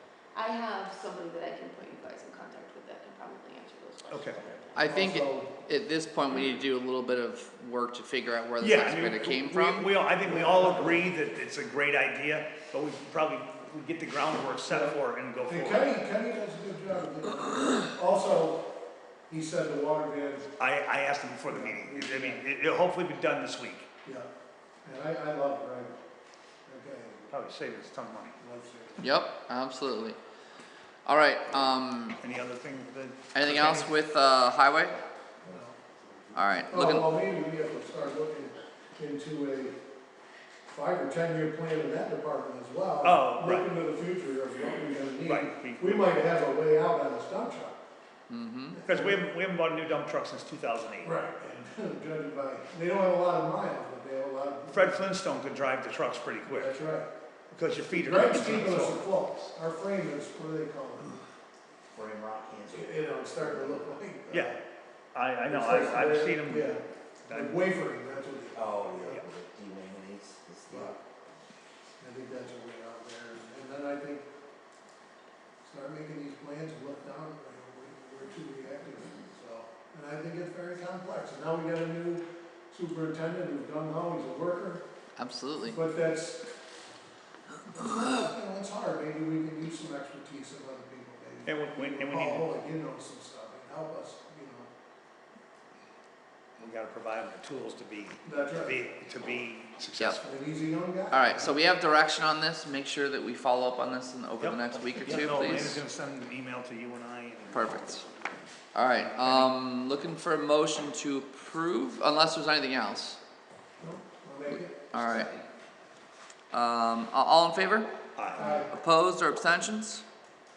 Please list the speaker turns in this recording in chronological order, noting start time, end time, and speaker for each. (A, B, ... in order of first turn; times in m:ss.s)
0:00.4-0:05.0 A
0:04.1-0:04.4 B
0:04.8-0:09.9 C
0:04.8-0:05.5 D
0:08.6-0:15.9 B
0:10.2-0:11.1 D
0:14.7-0:18.6 D
0:19.3-0:20.5 D
0:20.6-0:23.9 B
0:21.5-0:22.4 D
0:24.8-0:26.0 D
0:26.7-0:27.3 D
0:27.3-0:28.4 B
0:28.4-0:29.1 D
0:29.0-0:30.2 C
0:31.0-0:32.2 C
0:32.2-0:33.9 B
0:33.3-0:35.0 C
0:35.4-0:35.8 D
0:36.3-0:37.2 C
0:36.7-0:39.8 D
0:40.7-0:47.8 D
0:43.0-0:43.7 B
0:45.2-0:46.1 B
0:48.3-0:48.8 C
0:48.7-0:49.2 D
0:48.9-0:51.1 B
0:51.0-0:55.0 D
0:54.7-0:56.7 B
0:56.5-0:57.1 D
0:57.5-0:59.3 B
0:57.9-1:01.2 D
1:01.9-1:03.8 E
1:02.7-1:04.6 D
1:04.3-1:04.6 B
1:05.1-1:07.6 B
1:05.5-1:09.2 D
1:08.6-1:11.0 E
1:10.7-1:11.0 D
1:12.0-1:14.3 D
1:15.6-1:24.8 D
1:25.2-1:25.8 C
1:25.7-1:26.5 D
1:27.7-1:34.7 D
1:31.4-1:32.5 B
1:36.6-1:40.2 B
1:38.2-1:38.8 D
1:40.2-1:41.6 D
1:41.1-1:45.8 C
1:44.4-1:48.0 B
1:47.5-1:48.0 C
1:48.7-1:53.2 C
1:49.0-1:49.5 B
1:53.8-1:54.8 D
1:54.9-1:55.3 C
1:54.9-1:55.4 E
1:56.5-1:57.9 C
1:58.2-1:58.4 B
1:58.4-1:58.7 D
1:58.5-2:00.0 C